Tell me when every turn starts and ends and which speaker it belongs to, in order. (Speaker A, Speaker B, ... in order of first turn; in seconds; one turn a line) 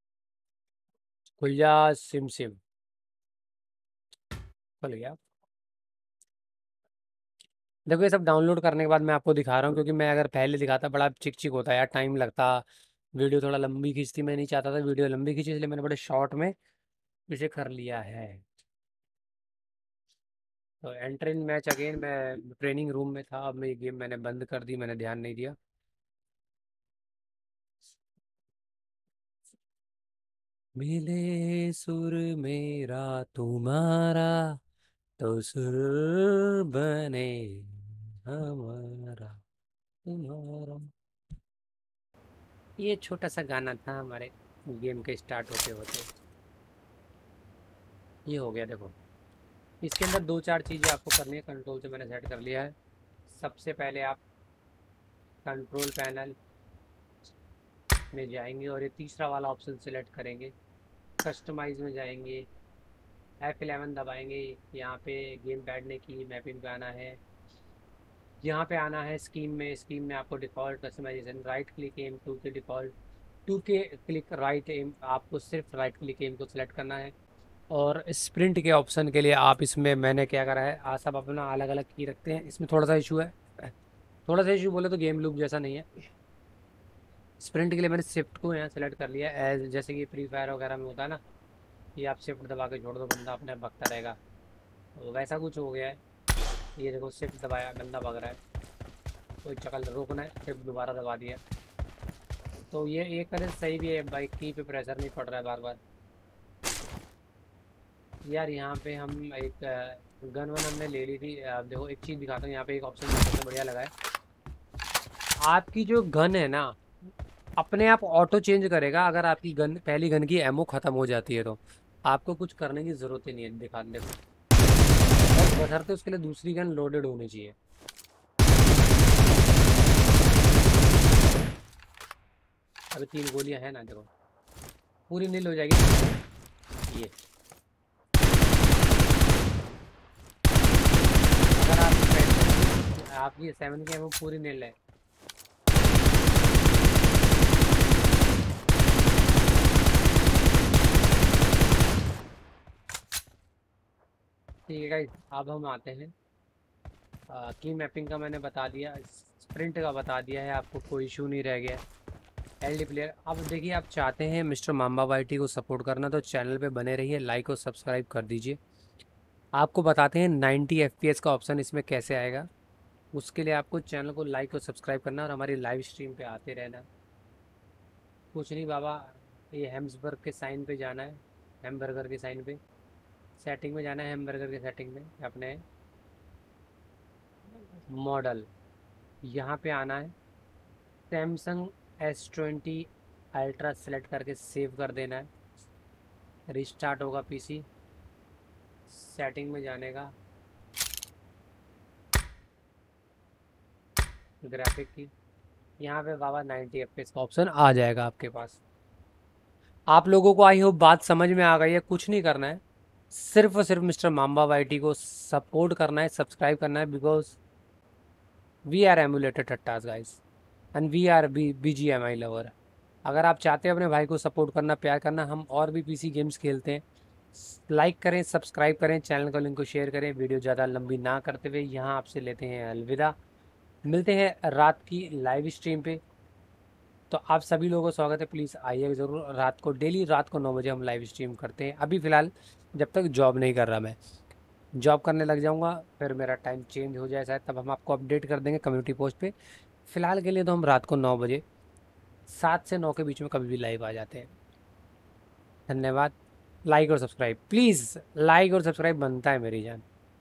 Speaker A: 1.4-2.6
Speaker A: 4.8-5.2
Speaker A: 7.8-16.5
Speaker A: 17.3-18.4
Speaker A: 20.8-25.5
Speaker A: 30.8-34.6
Speaker A: 35.2-39.4
Speaker A: 40.0-40.9
Speaker A: 42.8-46.1
Speaker A: 48.2-49.0
Speaker A: 49.8-52.7
Speaker A: 53.3-54.2
Speaker A: 55.4-56.4
Speaker A: 58.1-60.5
Speaker A: 61.2-62.5
Speaker A: 63.4-67.2
Speaker A: 68.4-72.9
Speaker A: 73.5-77.1
Speaker A: 77.7-83.7
Speaker A: 84.2-86.1
Speaker A: 87.4-91.2
Speaker A: 92.0-94.2
Speaker A: 95.0-96.0
Speaker A: 96.8-98.4
Speaker A: 99.4-101.4
Speaker A: 102.7-105.8
Speaker A: 108.2-113.9
Speaker A: 115.4-116.8
Speaker A: 117.6-124.2
Speaker A: 125.3-127.5
Speaker A: 132.9-134.1
Speaker A: 135.1-136.1
Speaker A: 136.9-137.1
Speaker A: 141.5-144.8
Speaker A: 154.7-156.1
Speaker A: 157.3-161.8
Speaker A: 162.6-168.6
Speaker A: 169.6-172.5
Speaker A: 173.1-176.8
Speaker A: 178.3-182.6
Speaker A: 183.4-185.6
Speaker A: 187.9-188.5
Speaker A: 189.2-190.1
Speaker A: 191.1-195.3
Speaker A: 196.5-197.7
Speaker A: 198.9-200.1
Speaker A: 204.4-205.1
Speaker A: 205.8-208.6
Speaker A: 209.9-217.4
Speaker A: 218.7-220.2
Speaker A: 220.7-222.5
Speaker A: 223.0-233.2
Speaker A: 233.8-236.0
Speaker A: 237.1-244.0
Speaker A: 244.8-249.3
Speaker A: 249.8-251.4
Speaker A: 252.3-254.3
Speaker A: 255.7-256.1
Speaker A: 256.6-259.8